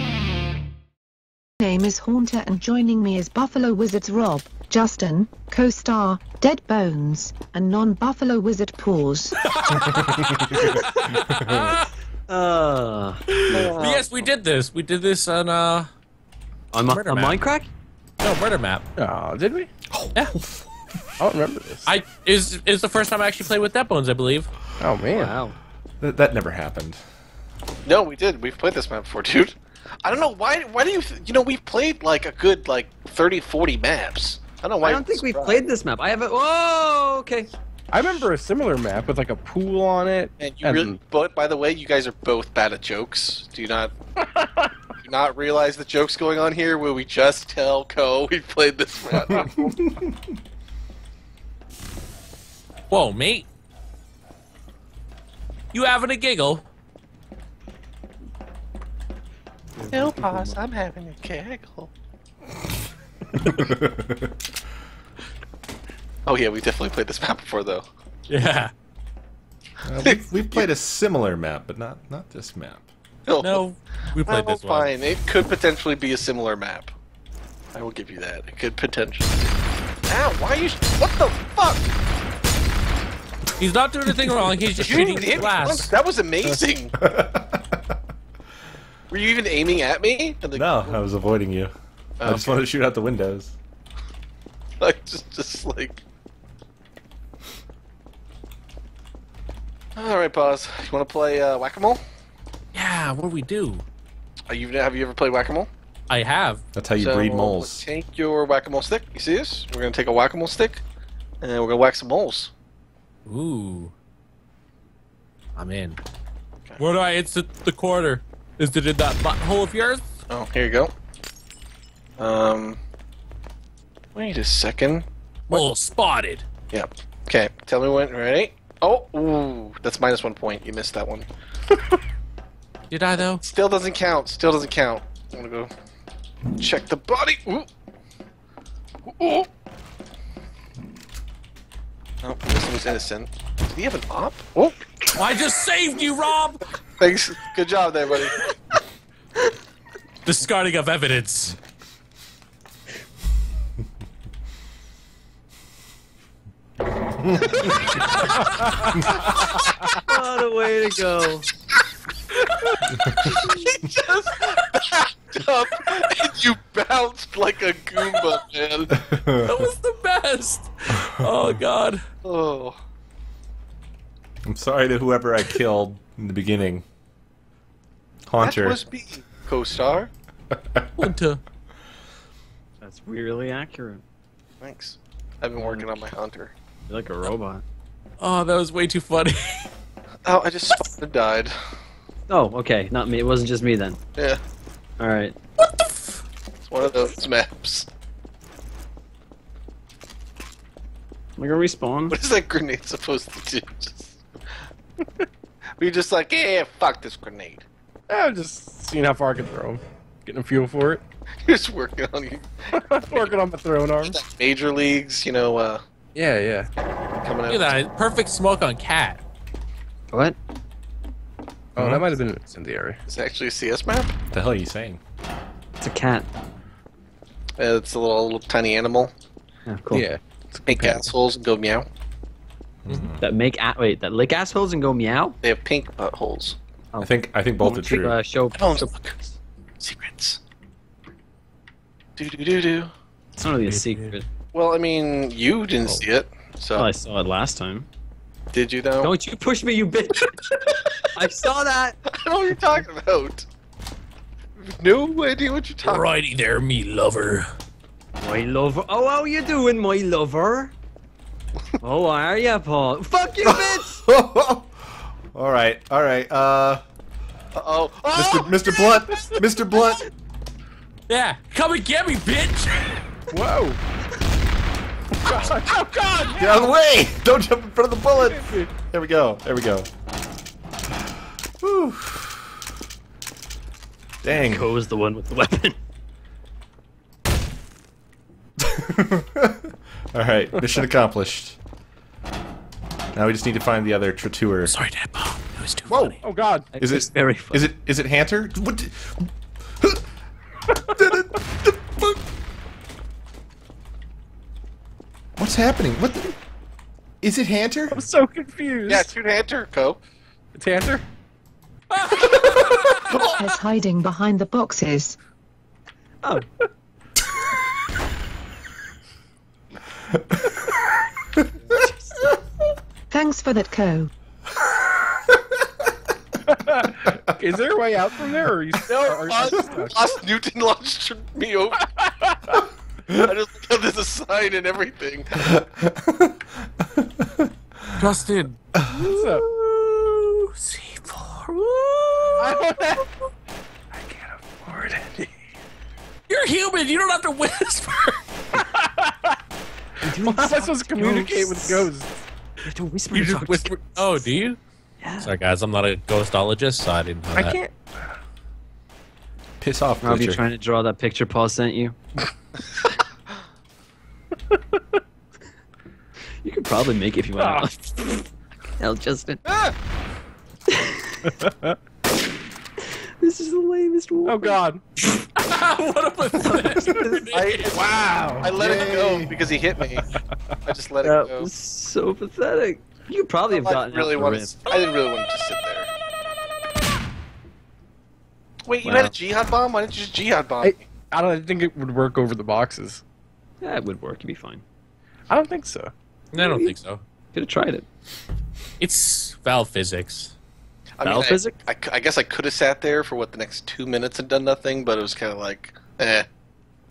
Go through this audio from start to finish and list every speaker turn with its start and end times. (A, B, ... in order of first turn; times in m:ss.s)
0:01.6-0:09.4 A
0:09.4-0:11.9 B
0:09.8-0:11.8 C
0:12.3-0:13.8 D
0:13.5-0:14.2 E
0:13.6-0:15.9 B
0:16.7-0:17.7 D
0:16.8-0:17.4 B
0:18.2-0:18.8 B
0:19.0-0:19.7 F
0:19.9-0:20.6 C
0:21.2-0:22.0 F
0:21.8-0:24.5 B
0:24.8-0:25.3 F
0:25.1-0:25.6 D
0:26.0-0:27.0 C
0:27.8-0:35.6 E
0:34.8-0:37.5 D
0:37.9-0:41.0 F
0:40.4-0:43.9 E
0:44.4-0:44.7 F
0:45.0-0:49.7 E
0:49.2-0:49.5 F
0:49.6-0:50.2 C
0:52.9-0:53.5 B
0:55.7-0:56.6 B
0:59.8-1:00.6 D
0:59.9-1:01.9 E
1:03.4-1:04.3 C
1:06.2-1:07.8 E
1:08.3-1:08.7 B
1:09.8-1:12.9 C
1:10.0-1:10.7 E
1:13.2-1:13.6 E
1:13.4-1:14.9 B
1:14.2-1:16.9 E
1:17.7-1:19.5 E
1:20.1-1:21.9 E
1:23.6-1:25.9 B
1:24.8-1:26.9 E
1:27.0-1:27.8 C
1:29.1-1:31.0 E
1:30.5-1:31.7 C
1:32.2-1:32.6 E
1:32.2-1:33.6 C
1:34.8-1:36.0 E
1:40.0-1:42.0 E
1:42.7-1:43.8 B
1:44.5-1:45.7 E
1:46.1-1:46.6 B
1:46.7-1:47.8 C
1:47.0-1:50.8 E
1:51.4-1:52.5 E
1:53.2-1:53.9 B
1:55.6-1:56.0 B
1:56.8-2:00.0 B
2:00.3-2:00.9 E
2:02.2-2:02.8 E
2:04.1-2:05.6 E
2:05.5-2:06.4 B
2:06.7-2:11.3 E
2:12.9-2:13.4 B
2:13.2-2:15.7 E
2:16.6-2:17.7 E
2:19.0-2:19.5 E
2:22.2-2:24.8 E
2:25.1-2:26.6 B
2:27.0-2:28.4 E
2:30.2-2:31.6 B
2:40.0-2:41.5 D
2:42.4-2:48.9 E
2:42.9-2:43.4 C
2:49.0-2:49.6 C
2:49.4-2:52.0 B
2:52.2-2:52.8 E
2:54.4-2:56.8 C
2:58.3-2:58.8 C
2:58.4-3:00.1 E
3:01.0-3:01.4 B
3:02.8-3:04.0 D
3:04.6-3:06.5 E
3:05.6-3:06.1 D
3:06.9-3:07.6 D
3:08.2-3:09.7 B
3:10.2-3:11.5 E
3:12.3-3:14.0 D
3:15.0-3:15.3 D
3:15.6-3:15.9 B
3:16.6-3:17.9 E
3:21.4-3:22.2 D
3:22.1-3:24.2 E
3:25.8-3:27.6 E
3:28.1-3:31.0 F
3:31.4-3:33.4 E
3:32.8-3:34.2 F
3:34.0-3:35.8 E
3:36.1-3:36.7 F
3:37.1-3:37.8 E
3:37.5-3:39.2 B
3:41.8-3:43.0 F
3:41.8-3:42.1 C
3:43.1-3:44.2 E
3:44.3-3:45.0 C
3:45.8-3:46.3 D
3:47.6-3:49.1 E
3:49.6-3:50.1 D
3:49.9-3:51.1 F
3:50.6-3:51.8 E
3:52.8-3:53.2 C
3:53.2-3:55.4 D
3:55.4-3:56.6 E
3:56.9-3:58.9 D
3:57.0-3:58.2 C
3:58.5-4:00.4 E
4:02.2-4:02.9 E
4:03.4-4:04.2 D
4:03.6-4:04.1 B
4:04.5-4:06.9 E
4:06.7-4:07.8 D
4:08.5-4:09.1 E
4:09.0-4:10.3 D
4:10.5-4:11.0 E
4:11.1-4:12.0 D
4:12.1-4:13.4 E
4:14.6-4:16.1 E
4:15.8-4:17.5 B
4:18.2-4:20.7 D
4:21.8-4:24.0 D
4:23.5-4:26.8 C
4:27.5-4:28.8 E
4:28.1-4:30.0 C
4:31.1-4:33.0 B
4:33.3-4:33.8 F
4:35.2-4:36.6 F
4:36.3-4:39.9 C
4:38.2-4:38.7 F
4:41.6-4:42.6 C
4:44.2-4:44.7 C
4:44.3-4:45.8 D
4:48.6-4:51.6 C
4:53.1-4:54.8 C
4:54.6-4:56.2 B
4:55.9-4:56.2 C
4:56.2-4:56.7 F
4:56.7-4:57.7 D
4:56.8-5:00.0 C
5:00.8-5:02.2 C
5:05.4-5:06.3 C
5:07.2-5:08.0 C
5:07.9-5:09.1 F
5:08.9-5:10.0 E
5:10.5-5:11.0 F
5:11.9-5:13.3 B
5:13.4-5:15.2 A
5:21.6-5:22.3 D
5:23.1-5:24.1 A
5:26.4-5:30.1 F
5:28.9-5:31.8 E
5:31.8-5:32.6 F
5:33.1-5:35.6 E
5:35.4-5:36.3 C
5:36.9-5:37.4 C
5:38.0-5:38.6 B
5:38.9-5:39.4 F
5:39.3-5:42.6 B
5:42.4-5:43.0 F
5:42.5-5:43.0 E
5:43.9-5:45.4 F
5:46.3-5:48.2 B
5:48.5-5:49.4 F
5:50.0-5:51.9 D
5:50.1-5:52.1 F
5:52.6-5:54.0 D
5:53.1-5:54.6 B
5:55.0-5:55.4 D
5:55.2-5:57.6 B
5:57.3-5:58.1 F
5:59.6-6:00.5 C
6:00.0-6:02.0 D
6:04.5-6:04.8 F
6:06.4-6:09.4 D
6:07.4-6:07.7 F
6:09.5-6:09.7 E
6:10.7-6:11.3 D
6:11.2-6:11.8 F
6:12.9-6:14.6 D
6:14.2-6:14.8 F
6:15.4-6:17.8 B
6:16.4-6:17.4 D
6:17.3-6:17.9 E
6:17.7-6:18.6 F
6:18.4-6:20.0 E
6:18.5-6:19.3 C
6:20.0-6:20.6 F
6:20.6-6:21.5 E
6:21.0-6:24.6 D
6:23.5-6:25.9 E
6:28.6-6:30.9 E
6:28.8-6:29.1 D
6:30.6-6:33.0 F
6:33.6-6:34.6 D
6:35.3-6:35.9 F
6:36.3-6:37.0 B
6:36.3-6:36.8 D
6:37.3-6:37.8 D
6:38.8-6:40.3 B
6:41.0-6:46.2 E
6:41.0-6:41.6 D